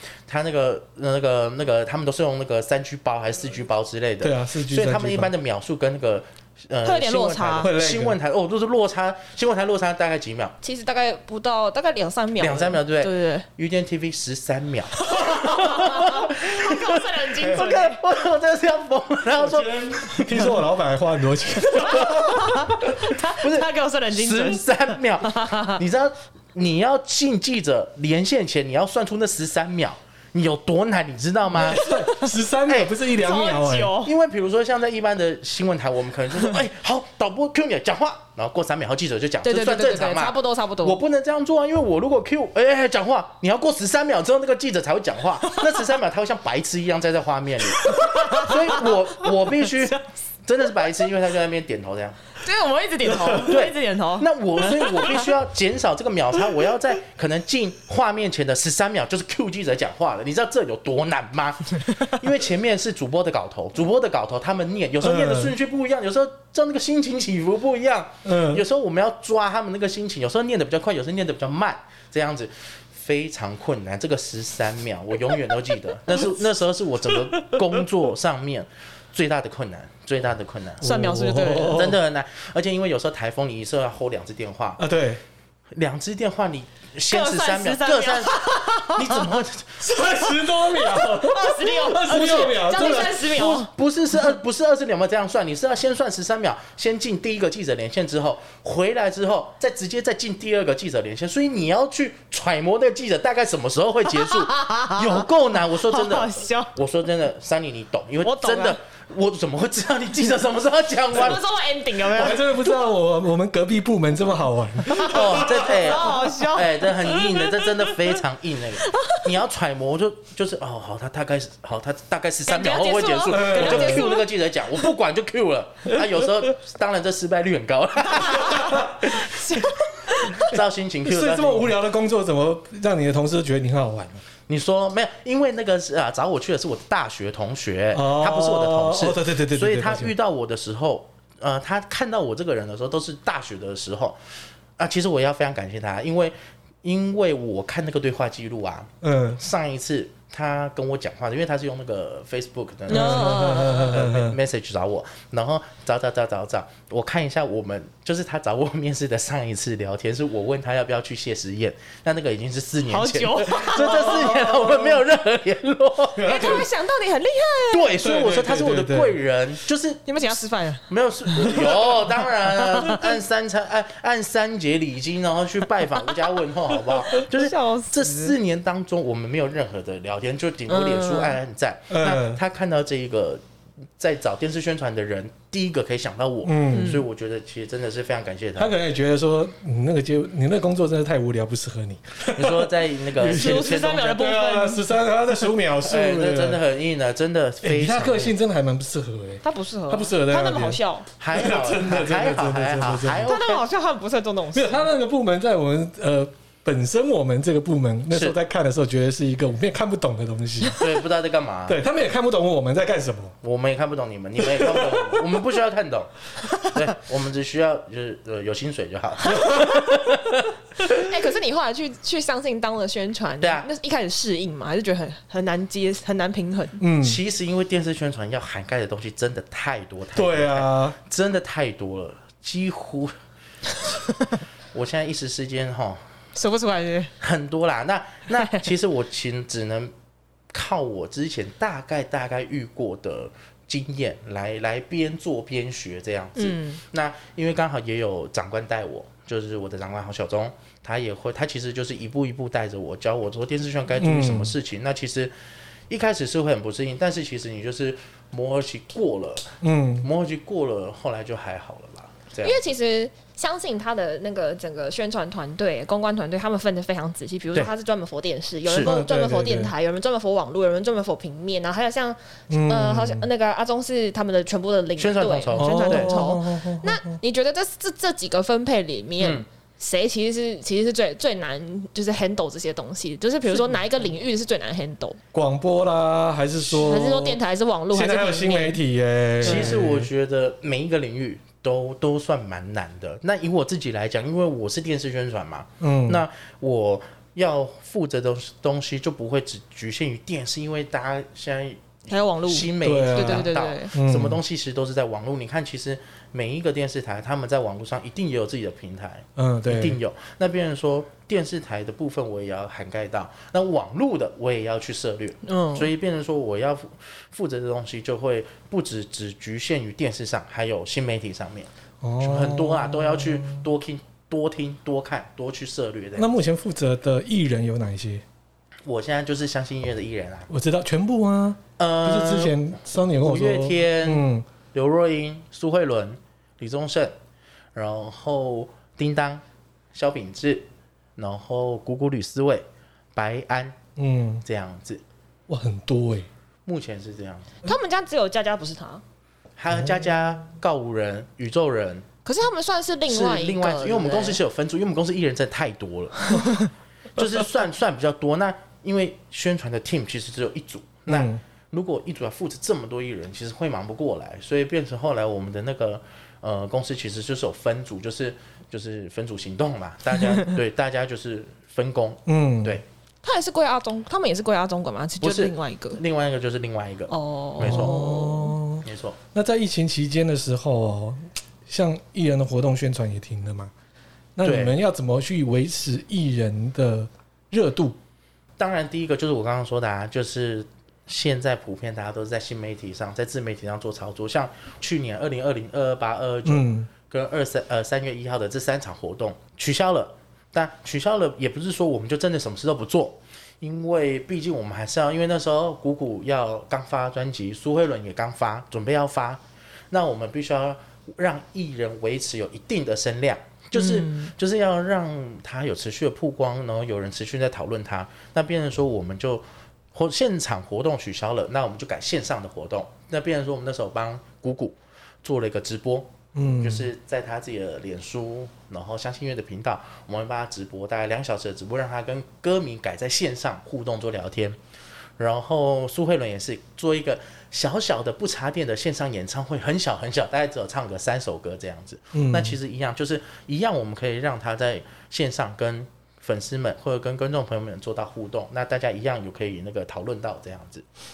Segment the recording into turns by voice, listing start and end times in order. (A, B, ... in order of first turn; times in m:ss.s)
0:00.3-0:10.5 A
0:04.2-0:05.3 B
0:06.8-0:07.7 C
0:07.6-0:08.2 B
0:10.6-0:13.4 C
0:12.4-0:20.4 A
0:15.0-0:18.0 C
0:17.4-0:17.7 B
0:19.4-0:22.7 B
0:21.9-0:25.8 C
0:23.4-0:31.8 A
0:31.5-0:32.3 C
0:31.5-0:34.0 B
0:32.7-0:33.0 A
0:33.1-0:34.1 C
0:34.0-0:52.2 A
0:39.4-0:41.0 C
0:47.8-0:50.0 C
0:52.4-0:55.3 C
0:53.1-0:53.4 B
0:53.4-1:20.8 A
1:05.0-1:05.5 B
1:08.2-1:08.6 B
1:20.8-1:22.0 B
1:20.8-1:21.9 C
1:21.7-1:24.8 A
1:24.8-1:25.2 B
1:25.7-1:29.9 A
1:27.1-1:29.2 C
1:29.8-1:33.3 B
1:30.7-1:33.7 C
1:33.4-1:51.4 A
1:44.1-1:46.7 C
1:48.2-1:48.8 C
1:51.1-1:52.6 C
1:52.1-1:55.9 B
1:54.8-1:57.7 C
1:54.9-2:09.4 A
1:58.8-1:59.3 C
2:02.5-2:04.2 C
2:03.3-2:04.1 B
2:08.3-2:10.4 C
2:10.3-2:11.8 A
2:10.5-2:14.2 B
2:14.5-2:24.2 A
2:17.9-2:20.1 B
2:24.8-2:46.6 A
2:29.0-2:29.4 B
2:32.9-2:33.9 C
2:32.9-2:34.4 B
2:42.9-2:44.4 C
2:43.8-2:45.0 B
2:46.1-2:46.7 B
2:46.2-2:47.9 C
2:47.7-2:50.0 A
2:48.0-2:49.2 B
2:50.0-2:52.0 C
2:50.9-3:03.4 A
2:52.5-2:53.1 C
2:57.1-2:58.4 C
3:00.7-3:01.4 C
3:01.9-3:02.4 B
3:04.0-3:08.7 A
3:06.4-3:07.0 B
3:06.7-3:07.0 C
3:08.6-3:16.6 B
3:12.3-3:14.2 A
3:13.2-3:14.8 C
3:15.8-3:18.3 A
3:17.6-3:23.3 B
3:19.4-3:21.1 C
3:21.2-3:23.6 A
3:23.2-3:24.8 C
3:24.5-3:31.0 B
3:28.1-3:28.4 A
3:30.7-3:31.8 A
3:31.7-3:33.3 B
3:33.4-3:40.5 A
3:34.4-3:35.2 B
3:39.3-3:39.7 B
3:39.4-3:39.6 C
3:40.9-3:46.8 C
3:43.4-3:43.7 A
3:46.8-3:47.2 B
3:47.0-3:53.1 A
3:50.1-3:51.0 B
3:54.7-3:56.0 A
3:56.4-3:57.1 C
3:57.2-3:59.9 A
4:00.5-4:15.3 A
4:06.4-4:06.8 C
4:14.0-4:14.5 B
4:15.9-4:22.6 A
4:19.6-4:20.1 B
4:22.4-4:45.2 C
4:28.6-4:28.9 A
4:28.8-4:29.7 B
4:32.5-4:33.2 B
4:35.0-4:36.1 A
4:35.6-4:37.2 B
4:39.2-4:39.4 A
4:45.3-4:47.4 B
4:46.7-4:48.8 C
4:47.9-4:50.1 B
4:49.4-5:21.7 A
4:49.4-4:49.7 C
4:55.8-4:56.2 B
5:02.1-5:03.9 C
5:02.8-5:04.4 B
5:09.4-5:10.0 B
5:15.4-5:15.9 C
5:22.0-5:23.6 B
5:22.2-5:26.3 A
5:26.2-5:28.2 B
5:28.8-5:30.5 A
5:30.5-5:34.4 B
5:31.8-5:32.7 A
5:33.2-5:37.1 A
5:37.7-5:39.4 A
5:39.9-5:40.6 A
5:41.2-5:43.8 A
5:44.0-5:44.4 B
5:44.4-5:45.0 A
5:45.5-5:46.3 B
5:46.6-5:47.5 A
5:47.6-5:49.0 C
5:49.6-5:52.0 A
5:49.8-5:50.0 B
5:52.2-5:54.4 C
5:53.1-5:56.5 A
5:56.3-5:56.6 C
5:57.2-6:12.8 A
6:01.1-6:01.4 B
6:10.2-6:10.5 C
6:12.3-6:12.8 B
6:13.2-6:16.0 C
6:15.2-6:18.0 A
6:17.1-6:18.6 C
6:17.6-6:23.7 B
6:18.8-6:19.2 A
6:24.4-6:28.0 B
6:24.4-6:24.8 A
6:28.6-6:49.4 A
6:36.4-6:36.9 B
6:49.9-7:14.6 A
6:53.8-6:54.3 C
7:06.3-7:06.9 B
7:15.2-7:30.8 A
7:22.1-7:22.6 B